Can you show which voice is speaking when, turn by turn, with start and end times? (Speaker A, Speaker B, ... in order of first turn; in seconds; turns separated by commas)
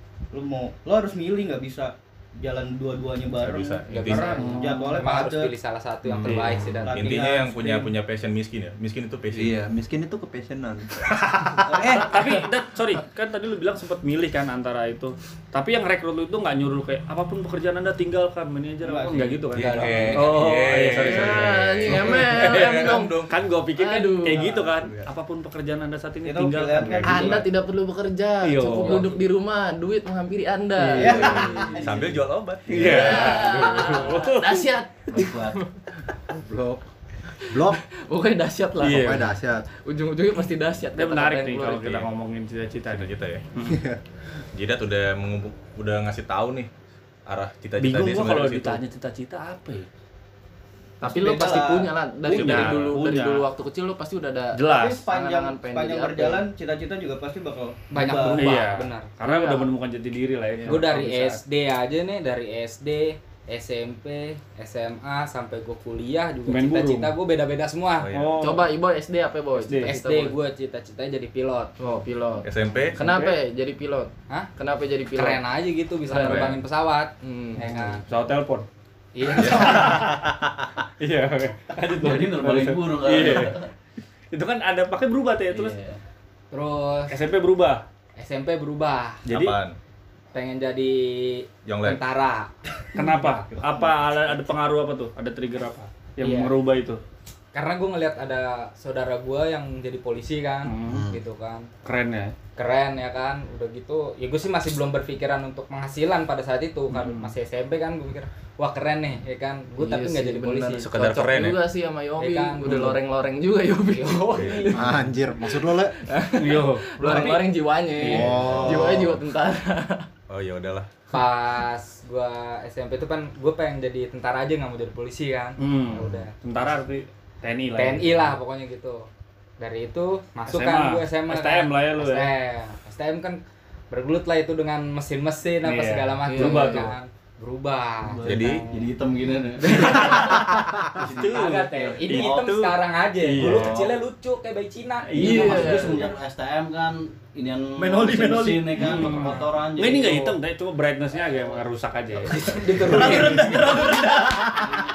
Speaker A: 0.3-5.5, Speaker B: 3.4-4.4, Speaker C: 3.8-7.2, Speaker D: 4.3-5.0, Speaker E: 6.0-6.8, Speaker D: 6.2-6.6, Speaker A: 6.8-7.9, Speaker B: 6.9-9.6, Speaker E: 9.3-12.1, Speaker A: 11.6-12.4, Speaker D: 11.9-27.4, Speaker A: 18.8-21.0, Speaker B: 19.5-23.4, Speaker F: 19.8-20.1, Speaker G: 21.0-23.2, Speaker G: 23.8-24.5, Speaker A: 26.2-27.5, Speaker G: 27.1-32.1, Speaker D: 28.4-29.1, Speaker D: 30.8-31.2, Speaker A: 30.9-32.2, Speaker E: 31.0-31.5, Speaker B: 31.8-33.7, Speaker D: 32.7-34.7, Speaker G: 32.8-35.7, Speaker F: 35.1-35.6, Speaker E: 36.3-36.8, Speaker G: 37.4-42.0, Speaker E: 37.5-37.8, Speaker D: 38.8-39.3, Speaker E: 38.8-39.7, Speaker D: 40.9-43.8, Speaker B: 42.9-43.4, Speaker E: 43.6-44.0, Speaker B: 44.5-46.7, Speaker B: 47.2-48.8, Speaker D: 47.8-49.9, Speaker A: 51.0-52.9, Speaker G: 51.0-56.5, Speaker D: 52.2-53.5, Speaker D: 54.5-55.0, Speaker A: 54.7-58.5, Speaker C: 57.9-59.2, Speaker D: 58.3-61.4, Speaker G: 59.2-59.7, Speaker G: 60.5-60.9, Speaker C: 60.7-68.1, Speaker D: 66.5-67.1, Speaker B: 68.0-68.4, Speaker D: 68.1-68.7, Speaker G: 68.4-70.4, Speaker D: 69.5-69.9, Speaker C: 69.8-71.7, Speaker G: 71.8-75.4, Speaker B: 72.4-73.0, Speaker D: 73.0-73.4, Speaker C: 75.1-78.0, Speaker G: 76.0-76.6, Speaker B: 76.2-76.5, Speaker G: 77.2-77.9, Speaker D: 77.7-78.7, Speaker C: 79.1-80.1, Speaker B: 79.3-80.6, Speaker D: 79.5-80.0, Speaker D: 81.0-83.6, Speaker F: 81.9-83.7, Speaker D: 84.3-85.8, Speaker F: 85.5-86.0, Speaker C: 86.5-87.1, Speaker D: 87.1-87.8, Speaker C: 88.2-89.4, Speaker B: 89.2-89.8, Speaker C: 90.3-92.5, Speaker B: 91.6-92.0, Speaker D: 92.9-97.0, Speaker A: 93.4-94.4, Speaker C: 96.2-96.5, Speaker C: 97.5-101.7, Speaker D: 100.6-101.0, Speaker E: 100.8-101.2, Speaker D: 101.8-102.3, Speaker C: 102.5-111.1, Speaker D: 106.9-107.3, Speaker G: 109.8-120.1, Speaker B: 110.8-111.7, Speaker C: 112.2-113.0, Speaker C: 113.9-114.8, Speaker B: 114.3-114.7, Speaker E: 114.7-116.0, Speaker D: 116.3-116.9, Speaker B: 117.0-117.5, Speaker E: 118.0-119.2, Speaker B: 118.2-119.1, Speaker B: 120.3-120.9, Speaker C: 121.1-126.3, Speaker D: 125.6-128.3, Speaker C: 127.7-129.1, Speaker C: 129.6-133.4, Speaker D: 130.5-132.3, Speaker C: 133.9-138.9, Speaker D: 135.6-136.9, Speaker G: 136.3-136.9, Speaker F: 138.0-142.4, Speaker B: 138.2-138.7, Speaker D: 139.7-140.4, Speaker D: 140.9-143.8, Speaker C: 141.2-146.0, Speaker F: 143.4-144.0, Speaker D: 145.1-145.9, Speaker F: 145.1-150.4, Speaker G: 145.2-146.1, Speaker A: 148.0-148.4, Speaker D: 148.7-154.1, Speaker A: 149.0-149.7, Speaker C: 152.3-153.7, Speaker F: 152.8-154.8